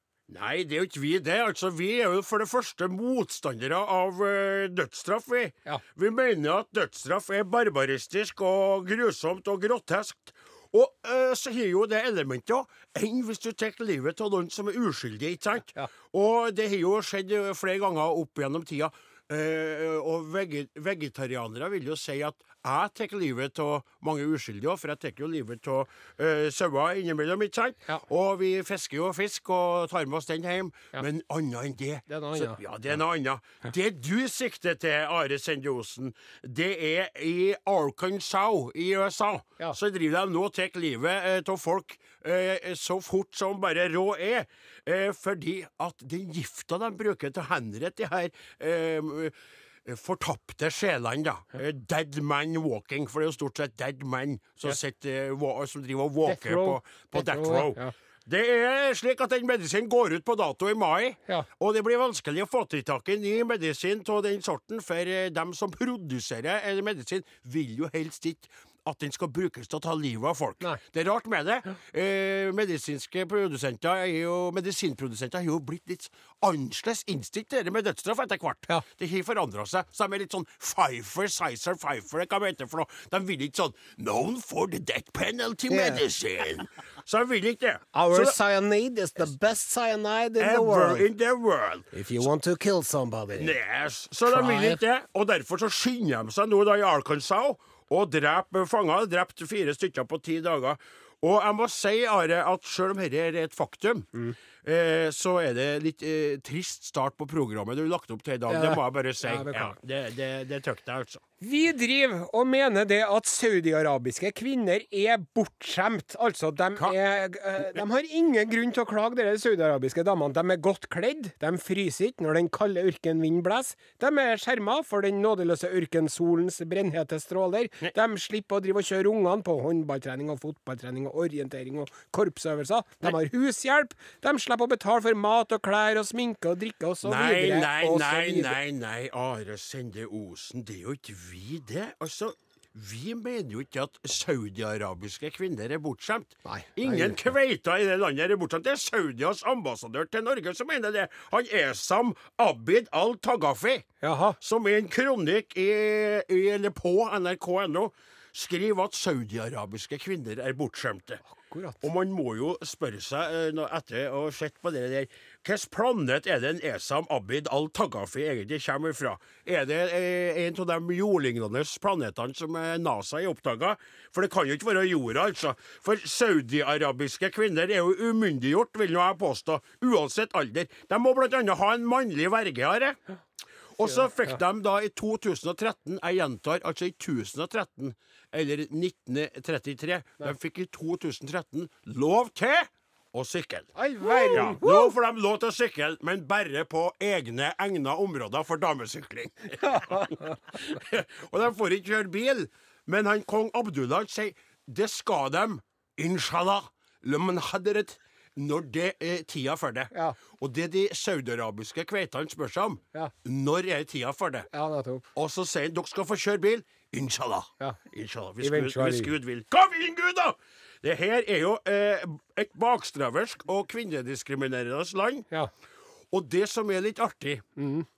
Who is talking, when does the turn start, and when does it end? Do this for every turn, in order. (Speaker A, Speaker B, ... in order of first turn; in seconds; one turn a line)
Speaker A: 0.3-49.3
Speaker B: 32.1-32.6
Speaker A: 49.8-88.3
Speaker B: 56.2-57.9
Speaker B: 85.7-86.0
Speaker B: 87.9-91.1
Speaker A: 90.4-92.2
Speaker B: 91.9-93.5
Speaker A: 93.3-104.1
Speaker B: 94.3-94.8
Speaker A: 104.6-111.2
Speaker B: 108.5-109.7
Speaker B: 111.4-138.5
Speaker A: 137.0-153.9
Speaker B: 146.4-147.2
Speaker B: 154.0-154.4
Speaker A: 154.4-161.2
Speaker B: 161.3-161.8
Speaker A: 161.8-183.0
Speaker A: 183.8-214.5
Speaker B: 183.8-184.4
Speaker B: 193.7-194.9
Speaker B: 199.7-200.1
Speaker B: 209.9-210.2
Speaker B: 214.5-215.1
Speaker A: 215.1-225.3
Speaker B: 218.4-219.1
Speaker A: 226.1-227.4
Speaker B: 227.6-227.8